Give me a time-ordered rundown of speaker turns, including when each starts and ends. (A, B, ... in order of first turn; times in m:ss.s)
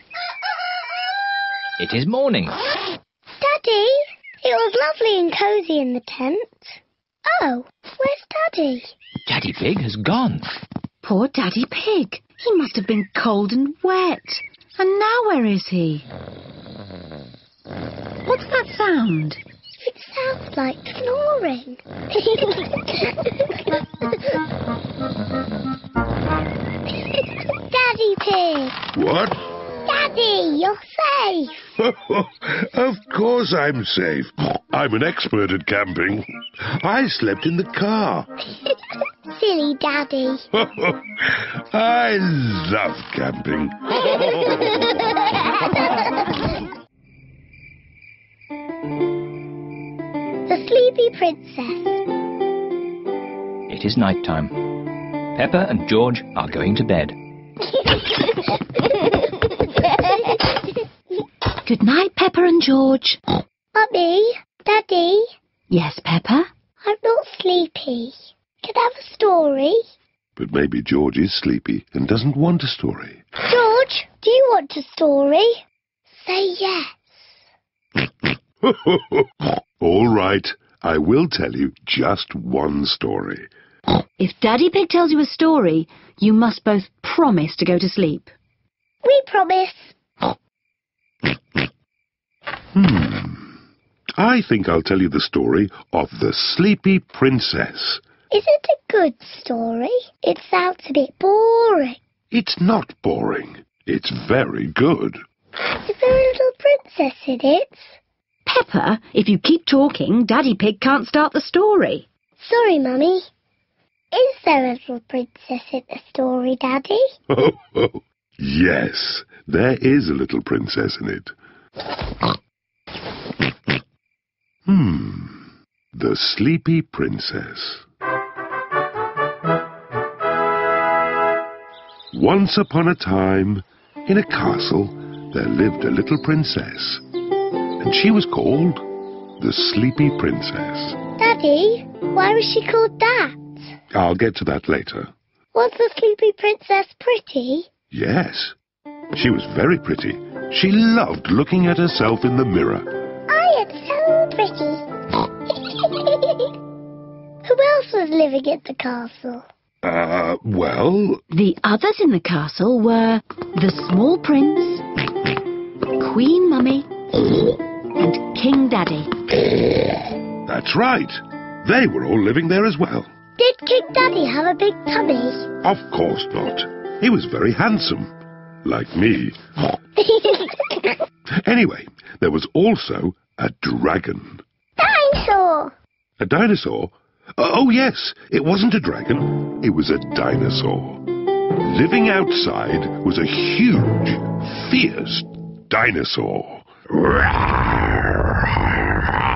0:01.8-0:02.6 A
0:03.4-0:08.9 B
0:09.2-0:10.5 A
0:11.0-0:16.0 C
0:18.2-0:19.4 C
0:19.8-0:23.3 B
0:27.7-0:28.8 B
0:28.9-0:29.4 D
0:29.8-0:31.6 B
0:31.7-0:38.3 D
0:39.3-0:40.4 B
0:40.5-0:44.8 D
0:50.4-0:52.0 B
0:53.7-0:54.8 A
0:55.3-0:57.2 A
1:01.6-1:03.2 C
1:03.7-1:05.3 B
1:05.7-1:06.5 C
1:06.8-1:09.8 B
1:10.4-1:13.2 D
1:13.4-1:17.2 B
1:18.6-1:23.5 D
1:24.2-1:28.3 C
1:29.0-1:30.0 B
1:32.7-1:33.5 D
1:34.2-1:38.0 D
1:38.3-1:42.0 B
1:42.3-1:45.2 D
1:45.7-1:48.0 B
1:48.4-1:52.0 C
1:52.4-1:53.3 B
1:54.1-1:57.0 B
1:57.3-2:01.3 D
2:04.6-2:07.8 D
2:12.1-2:17.0 D
2:17.8-2:18.9 D
2:19.4-2:21.0 D
2:21.2-2:23.7 B
2:23.9-2:25.1 D
2:25.5-2:27.7 B
2:27.9-2:28.6 D
2:29.1-2:32.9 D
2:33.3-2:34.8 B
2:35.8-2:36.5 B
2:37.4-2:39.4 B
2:39.8-2:41.2 D
2:41.3-2:44.8 C
2:45.9-2:46.9 C
2:48.0-2:49.1 C
2:50.4-2:53.1 D
2:53.4-2:55.5 B
2:55.6-2:59.4 D
3:00.0-3:00.8 B
3:01.4-3:04.4 D
3:04.8-3:05.7 B
3:06.2-3:11.0 D
3:11.6-3:18.8 D